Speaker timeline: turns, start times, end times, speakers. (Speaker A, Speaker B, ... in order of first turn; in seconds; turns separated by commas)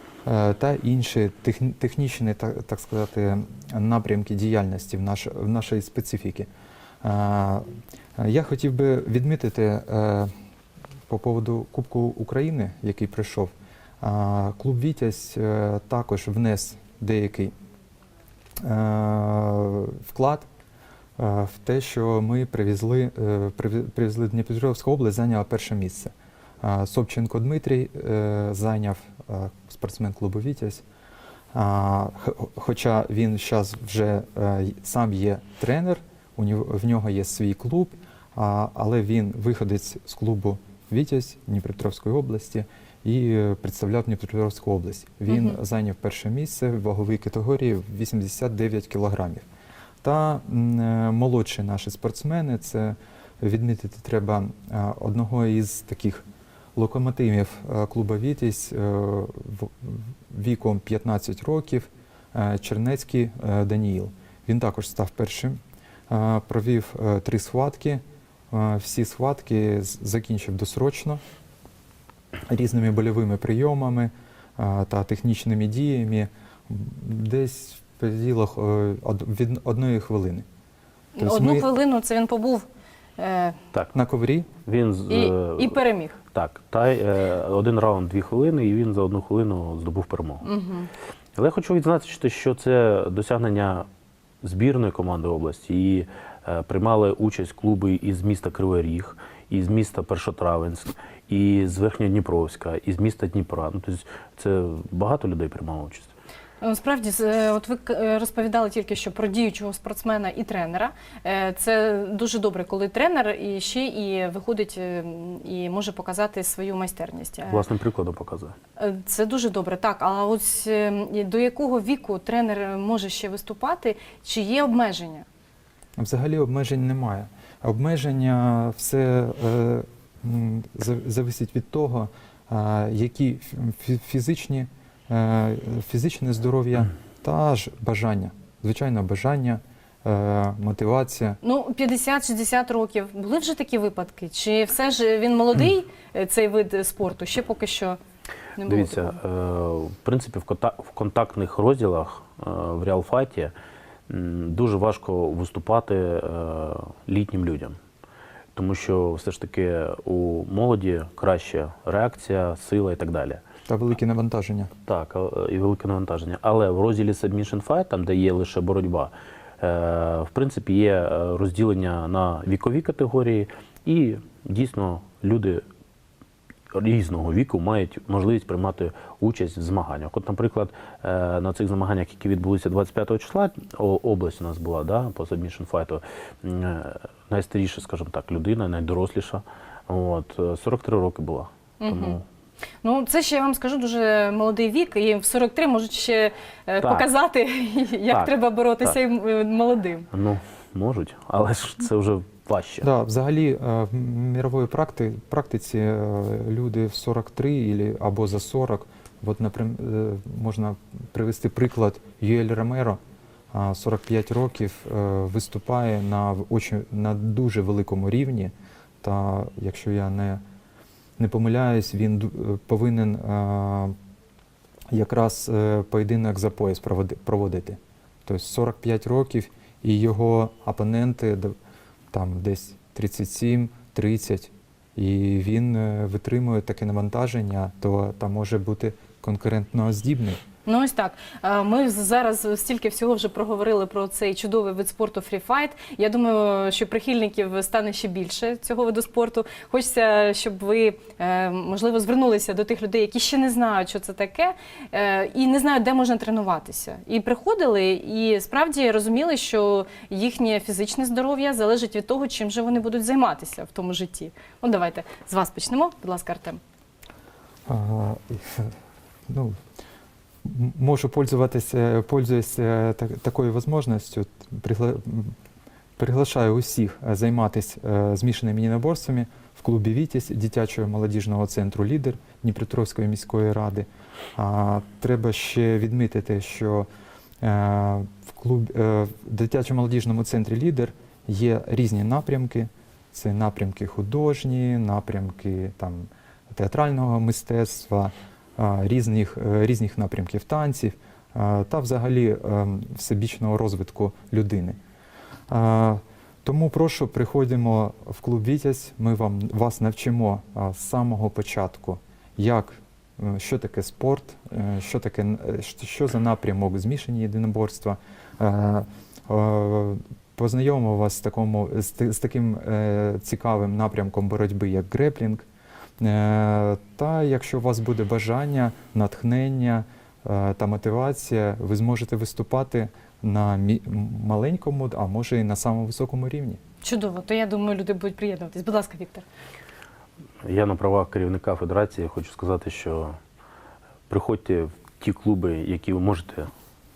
Speaker A: 0.2-6.5, Speaker A: 7.0-10.3, Speaker A: 11.1-17.5, Speaker A: 18.6-20.5, Speaker A: 21.2-30.8, Speaker A: 31.5-49.5, Speaker B: 45.3-45.6, Speaker A: 50.0-56.2, Speaker A: 56.8-71.2, Speaker A: 72.5-80.5, Speaker B: 81.2-82.7, Speaker A: 81.2-81.7, Speaker B: 83.2-83.6, Speaker A: 83.9-84.5, Speaker C: 84.7-85.8, Speaker B: 85.1-86.2, Speaker C: 86.3-90.4, Speaker B: 90.4-90.9, Speaker C: 91.4-93.9, Speaker C: 94.4-106.1, Speaker B: 106.6-117.7, Speaker C: 117.5-118.5, Speaker B: 118.8-125.3, Speaker A: 126.0-141.4, Speaker B: 141.4-148.0, Speaker B: 148.6-149.2, Speaker C: 148.7-153.5, Speaker C: 154.1-157.8, Speaker C: 158.6-163.4, Speaker A: 163.7-164.7, Speaker C: 164.9-175.6, Speaker C: 176.7-192.2, Speaker B: 191.8-192.2, Speaker B: 192.8-200.1, Speaker C: 198.1-199.0, Speaker C: 200.1-202.9, Speaker A: 202.8-213.0, Speaker A: 213.5-220.4, Speaker A: 221.2-223.9, Speaker A: 224.9-231.5, Speaker A: 232.1-240.4, Speaker B: 240.7-266.6, Speaker A: 267.7-268.7, Speaker A: 269.3-269.6, Speaker A: 270.4-275.3, Speaker A: 276.0-286.9, Speaker A: 287.4-304.8, Speaker A: 305.5-325.5, Speaker A: 326.0-336.6, Speaker B: 336.8-339.2, Speaker C: 340.4-343.1, Speaker C: 344.1-346.5